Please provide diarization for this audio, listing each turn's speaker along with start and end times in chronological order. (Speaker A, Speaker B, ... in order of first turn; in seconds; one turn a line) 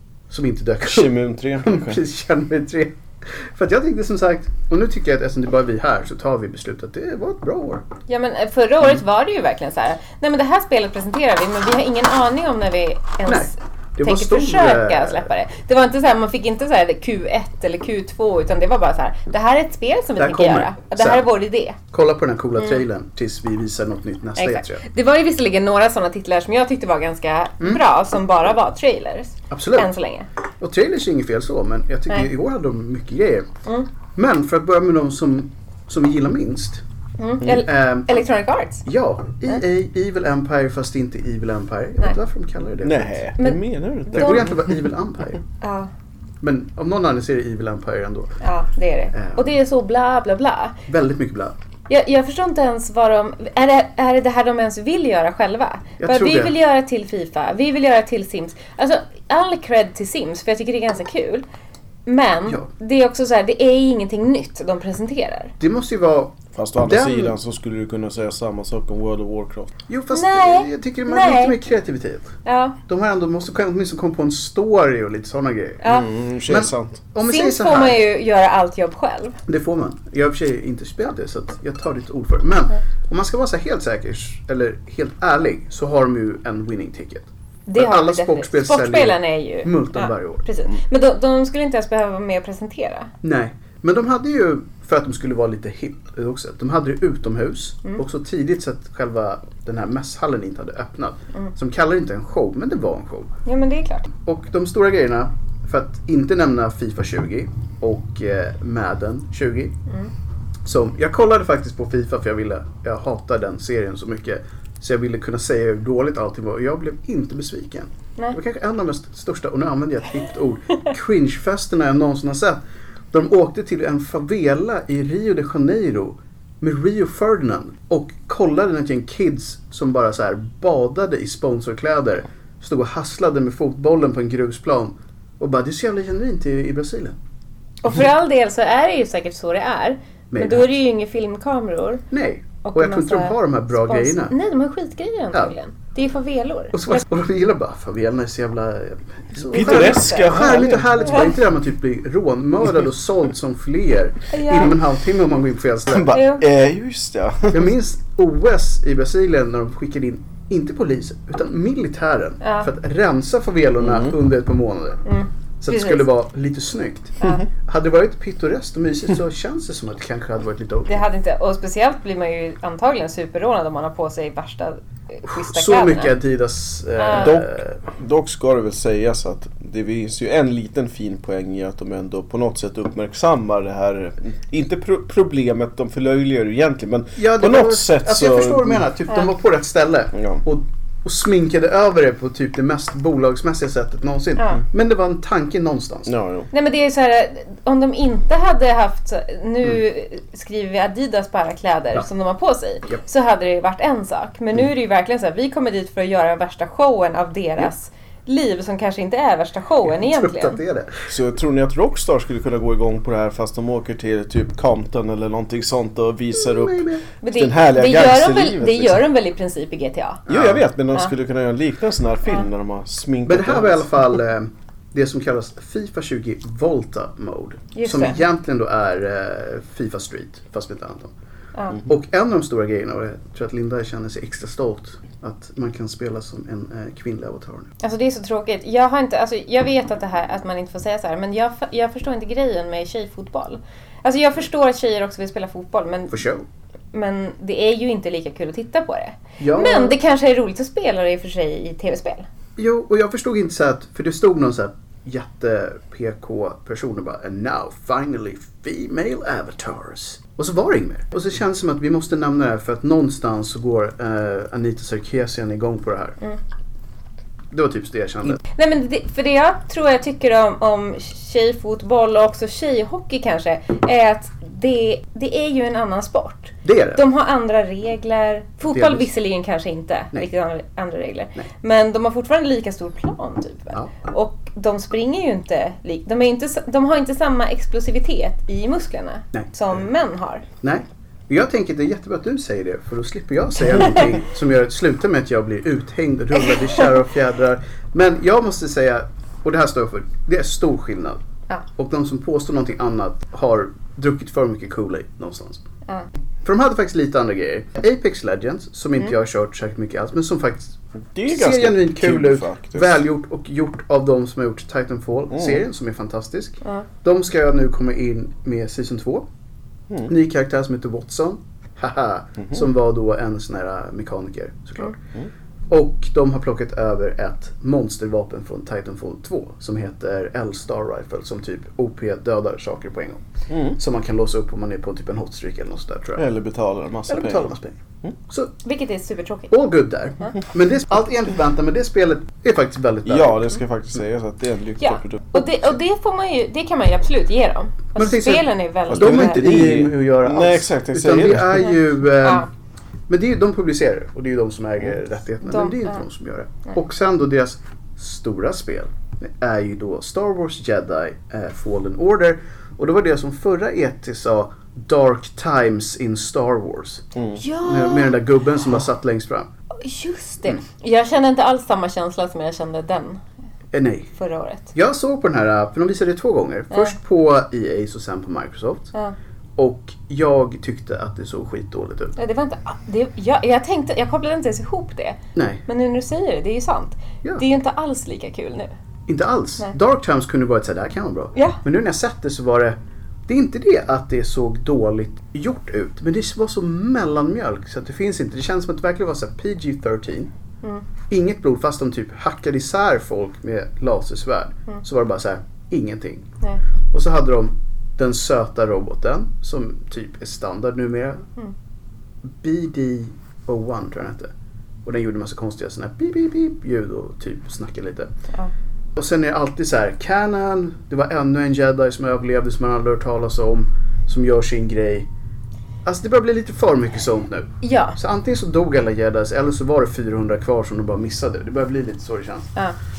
Speaker A: 0.3-7.8
Speaker B: 0.8-2.0
Speaker C: 8.1-21.8
Speaker A: 13.2-15.3
Speaker A: 20.2-21.3
Speaker A: 21.9-24.8
Speaker C: 24.4-30.3
Speaker A: 29.5-29.9
Speaker A: 30.6-33.5
Speaker A: 34.1-36.8
Speaker C: 37.2-38.8
Speaker A: 37.4-38.2
Speaker A: 38.8-43.3
Speaker B: 42.8-44.8
Speaker C: 43.4-44.5
Speaker A: 44.1-45.4
Speaker C: 45.6-45.9
Speaker A: 46.4-48.3
Speaker C: 48.4-50.8
Speaker A: 49.1-49.5
Speaker A: 50.9-51.5
Speaker C: 51.9-61.4
Speaker A: 56.0-56.5
Speaker C: 62.0-65.5
Speaker A: 65.6-67.3
Speaker B: 66.5-69.7
Speaker A: 69.9-72.4
Speaker C: 70.1-71.5
Speaker C: 72.4-72.8
Speaker A: 72.9-75.8
Speaker C: 75.8-76.1
Speaker B: 75.8-77.0
Speaker A: 76.5-78.0
Speaker C: 77.2-79.4
Speaker A: 79.5-90.4
Speaker C: 87.7-93.1
Speaker A: 93.2-103.3
Speaker C: 103.5-104.1
Speaker A: 104.2-109.8
Speaker A: 110.6-122.6
Speaker A: 123.1-137.2
Speaker C: 137.8-142.1
Speaker A: 140.3-140.7
Speaker A: 142.1-144.3
Speaker C: 142.6-147.0
Speaker A: 146.7-156.1
Speaker B: 149.4-151.4
Speaker C: 149.5-150.5
Speaker C: 154.3-154.7
Speaker B: 155.9-157.7
Speaker C: 156.1-156.4
Speaker A: 157.5-165.0
Speaker C: 162.4-162.7
Speaker B: 163.8-164.1
Speaker C: 165.0-166.0
Speaker A: 165.6-171.1
Speaker C: 170.9-176.1
Speaker A: 175.3-177.8
Speaker C: 177.0-177.3
Speaker B: 177.1-188.8
Speaker A: 187.2-196.1
Speaker B: 190.1-190.4
Speaker B: 196.1-196.5
Speaker C: 196.5-210.6
Speaker A: 210.0-211.1
Speaker B: 211.1-219.0
Speaker A: 216.3-217.0
Speaker C: 217.2-220.2
Speaker A: 220.3-220.6
Speaker B: 220.3-223.9
Speaker A: 223.2-231.1
Speaker C: 227.7-228.2
Speaker A: 231.8-237.7
Speaker C: 237.8-246.1
Speaker A: 246.1-246.4
Speaker C: 246.9-252.2
Speaker A: 249.4-250.0
Speaker A: 252.6-266.2
Speaker A: 267.5-268.4
Speaker C: 268.5-290.4
Speaker A: 276.6-277.0
Speaker A: 278.7-279.1
Speaker A: 290.6-301.2
Speaker C: 296.4-296.9
Speaker A: 301.8-305.6
Speaker A: 306.4-319.2
Speaker B: 311.1-313.0
Speaker B: 315.3-315.6
Speaker A: 320.1-325.0
Speaker A: 325.7-333.2
Speaker B: 333.5-333.8
Speaker A: 333.8-336.2
Speaker B: 336.1-337.5
Speaker A: 337.1-337.8
Speaker C: 338.6-339.5
Speaker A: 339.5-343.6
Speaker B: 343.1-345.4
Speaker C: 344.8-349.6
Speaker A: 347.9-352.5
Speaker B: 348.9-351.7
Speaker C: 352.2-352.5
Speaker A: 353.1-367.0
Speaker C: 355.4-356.0
Speaker C: 367.4-368.2
Speaker A: 367.6-369.5
Speaker C: 369.8-373.2
Speaker A: 373.7-374.1
Speaker C: 374.1-374.7
Speaker A: 374.7-378.9
Speaker A: 379.6-382.2
Speaker C: 382.2-388.7
Speaker A: 385.3-385.6
Speaker A: 389.1-392.8
Speaker C: 391.3-391.6
Speaker A: 393.3-400.3
Speaker A: 401.1-406.3
Speaker A: 406.9-411.2
Speaker A: 412.4-414.3
Speaker A: 414.8-418.1
Speaker A: 418.9-425.1
Speaker A: 425.8-432.5
Speaker C: 427.6-428.0